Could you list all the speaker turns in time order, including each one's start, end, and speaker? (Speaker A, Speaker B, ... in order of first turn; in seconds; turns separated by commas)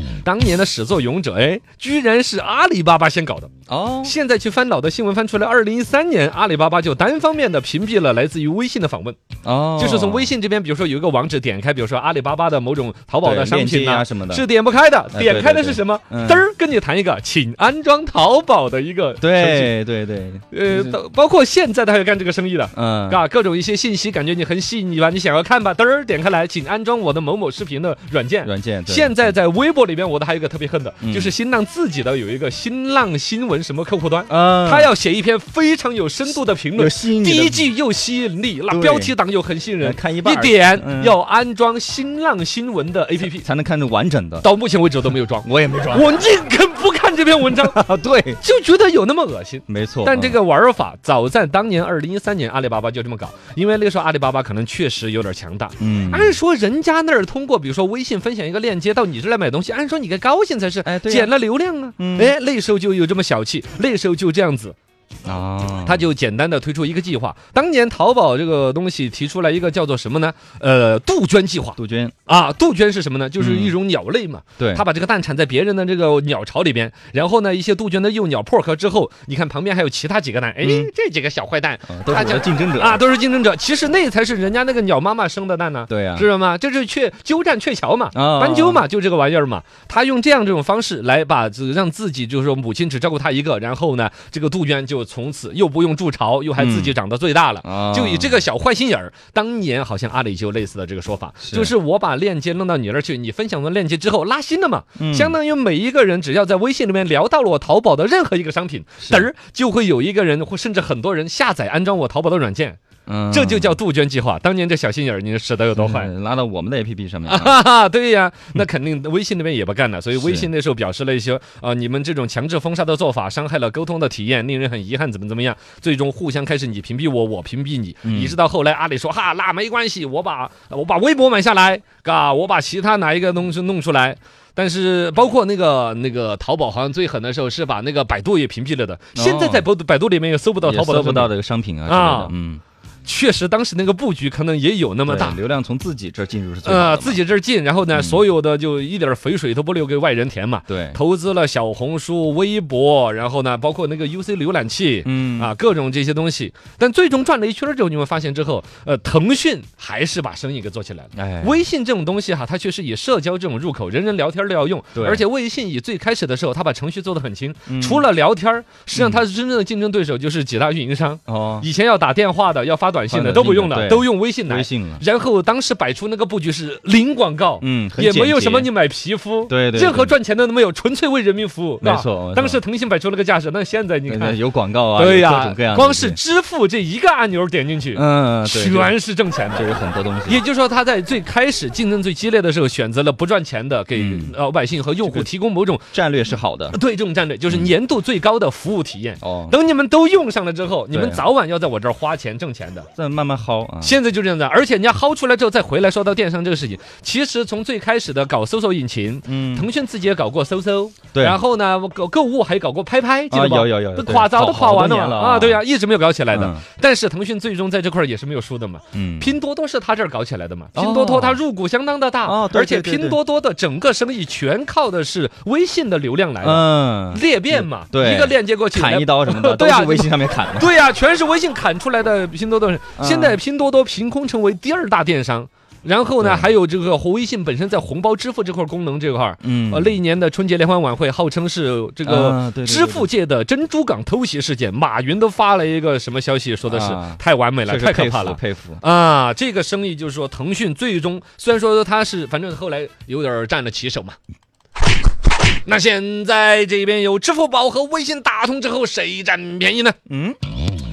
Speaker A: 0.2-3.5, Speaker B: 3.7-4.1, Speaker A: 4.0-9.2, Speaker B: 9.4-10.3, Speaker A: 9.8-19.7, Speaker B: 13.2-14.4, Speaker B: 15.1-16.4, Speaker B: 19.2-21.0, Speaker A: 20.5-43.4, Speaker B: 22.7-23.2, Speaker B: 28.4-29.3, Speaker B: 31.0-31.3, Speaker B: 34.3-34.9, Speaker B: 36.8-37.7, Speaker B: 38.7-39.1, Speaker B: 39.8-41.2, Speaker B: 43.4-44.5, Speaker A: 44.4-47.8, Speaker B: 45.4-46.1, Speaker B: 47.5-48.4, Speaker A: 48.4-64.8, Speaker B: 49.7-50.4, Speaker B: 55.8-56.4, Speaker B: 60.8-61.3, Speaker B: 62.0-62.3, Speaker B: 65.2-66.1, Speaker A: 65.8-112.8, Speaker B: 71.8-72.1, Speaker B: 73.4-73.8, Speaker B: 74.6-74.8, Speaker B: 80.6-80.9, Speaker B: 81.9-83.0, Speaker B: 85.9-86.3, Speaker B: 88.1-88.8, Speaker B: 96.6-96.9, Speaker B: 97.6-98.4, Speaker B: 101.4-101.7, Speaker B: 105.0-105.3, Speaker B: 109.0-109.2, Speaker B: 113.0-113.8, Speaker A: 113.3-116.1, Speaker B: 115.8-117.6, Speaker A: 117.3-141.3, Speaker B: 120.1-120.5, Speaker B: 128.0-128.3, Speaker B: 139.1-139.6, Speaker B: 140.6-142.6, Speaker A: 141.9-142.3, Speaker A: 143.0-145.4, Speaker B: 145.1-147.2, Speaker A: 146.6-184.4, Speaker B: 147.9-148.2, Speaker B: 150.7-151.0, Speaker B: 155.0-155.5, Speaker B: 161.2-161.6, Speaker B: 164.9-165.2, Speaker B: 167.7-168.1, Speaker B: 168.9-169.2, Speaker B: 171.3-171.7, Speaker B: 173.1-175.0, Speaker B: 177.6-178.7, Speaker B: 179.5-180.1, Speaker B: 181.8-182.6, Speaker B: 184.1-186.2, Speaker A: 184.9-189.7, Speaker B: 187.9-188.9, Speaker B: 189.5-190.4, Speaker A: 190.2-195.9, Speaker B: 193.9-194.3, Speaker B: 195.0-195.3, Speaker B: 195.9-196.8, Speaker A: 196.7-202.9, Speaker B: 197.5-197.7, Speaker B: 199.2-199.6, Speaker B: 200.9-201.2, Speaker B: 203.0-204.0, Speaker A: 203.8-254.2, Speaker B: 209.2-209.7, Speaker B: 211.1-211.4, Speaker B: 213.3-215.6, Speaker B: 216.3-216.6, Speaker B: 218.9-219.3, Speaker B: 220.7-221.4, Speaker B: 222.2-223.2, Speaker B: 226.4-230.7, Speaker B: 233.0-233.4, Speaker B: 236.2-236.5, Speaker B: 239.4-240.0, Speaker B: 242.0-243.1, Speaker B: 246.7-248.8, Speaker A: 255.6-260.0, Speaker B: 260.1-260.4